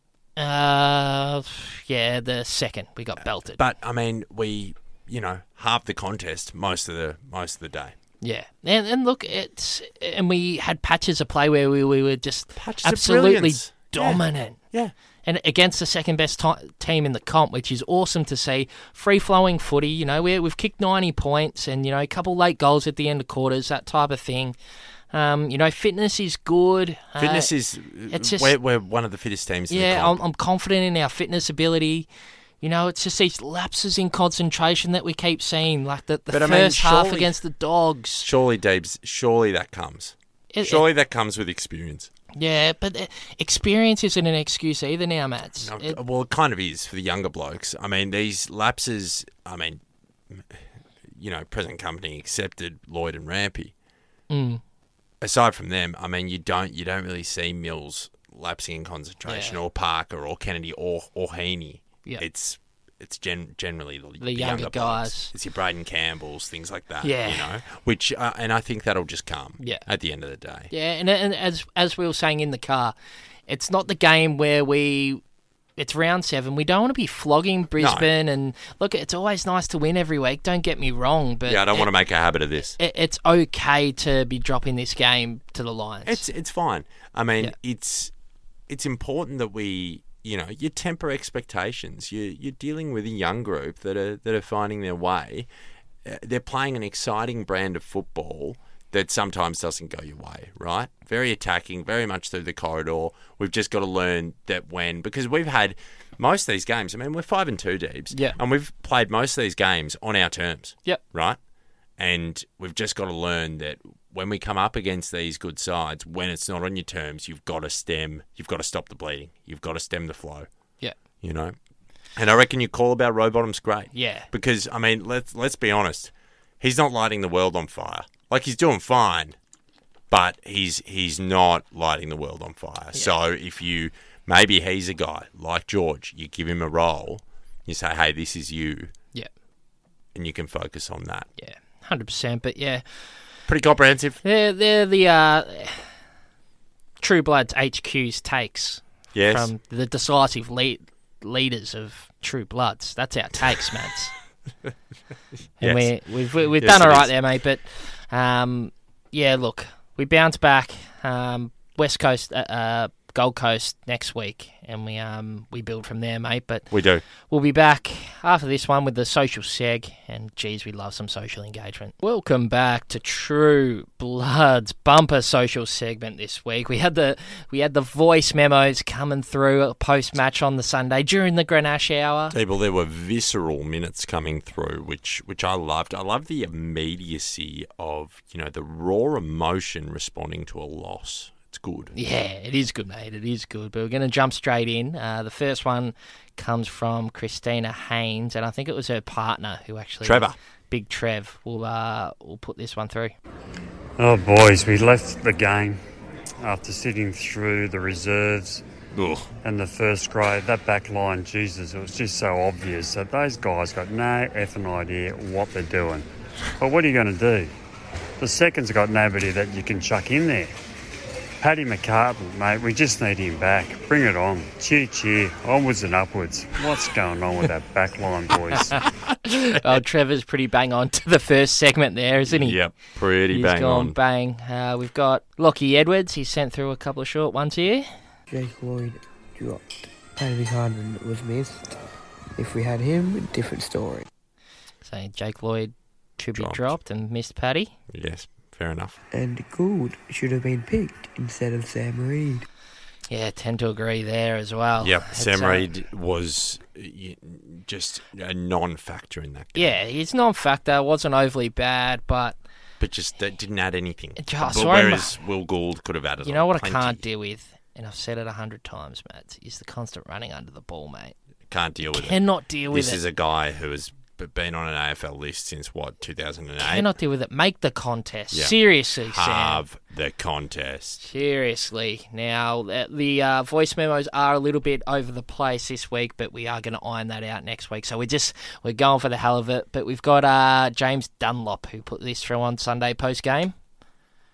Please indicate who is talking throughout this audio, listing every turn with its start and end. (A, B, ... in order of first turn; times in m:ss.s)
0:00.4-0:03.6 A
0:03.6-0:08.0 B
0:08.2-0:14.6 A
0:12.6-0:14.9 B
0:15.2-0:24.6 A
0:25.1-0:27.5 A
0:27.2-0:30.2 B
0:28.1-0:28.5 A
0:29.7-0:32.1 A
0:32.6-0:38.3 A
0:36.3-0:37.4 B
0:38.2-0:42.1 B
0:40.5-0:40.8 A
0:42.3-0:46.0 A
0:45.6-0:53.7 B
0:54.3-0:54.6 A
0:55.2-1:10.7 B
0:59.3-0:59.6 A
1:04.2-1:05.3 A
1:07.0-1:07.5 A
1:10.7-1:12.9 A
1:13.5-1:15.2 A
1:15.8-1:21.9 A
1:17.8-1:18.1 B
1:21.5-1:22.8 B
1:22.8-1:26.2 A
1:26.0-1:28.1 B
1:28.7-1:35.5 B
1:36.0-1:51.4 B
1:52.0-2:00.5 B
2:01.2-2:01.6 B
2:02.2-2:09.4 B
2:03.9-2:04.3 A
2:10.1-2:18.9 B
2:20.1-2:21.3 B
2:21.4-2:22.8 A
2:23.5-2:24.2 B
2:24.2-2:25.8 A
2:27.0-2:34.1 A
2:29.1-2:29.5 B
2:35.6-2:36.0 B
2:35.6-2:46.7 A
2:36.5-2:37.1 B
2:46.7-2:47.0 B
2:47.3-3:02.4 A
3:02.3-3:11.9 B
3:11.9-3:23.2 A
3:20.0-3:20.4 B
3:24.0-3:25.8 C
3:26.4-3:28.6 C
3:28.9-3:29.3 B
3:29.4-3:36.1 C
3:36.6-3:37.5 C
3:38.2-3:40.6 C
3:41.4-3:48.8 C
3:48.8-3:49.1 B
3:49.3-3:52.6 A
3:52.3-3:54.0 B
3:53.3-3:57.9 A
3:58.3-4:01.8 D
4:02.4-4:04.1 D
4:04.8-4:07.7 A
4:06.3-4:06.8 B
4:07.9-4:09.0 B
4:09.1-4:12.5 D
4:13.1-4:15.7 A
4:14.8-4:19.8 B
4:19.6-4:22.4 A
4:22.8-4:27.0 B
4:24.2-4:25.2 A
4:26.2-4:31.1 A
4:31.5-4:36.9 B
4:31.9-4:33.0 A
4:36.6-4:39.6 A
4:38.3-4:41.0 B
4:41.0-4:53.5 A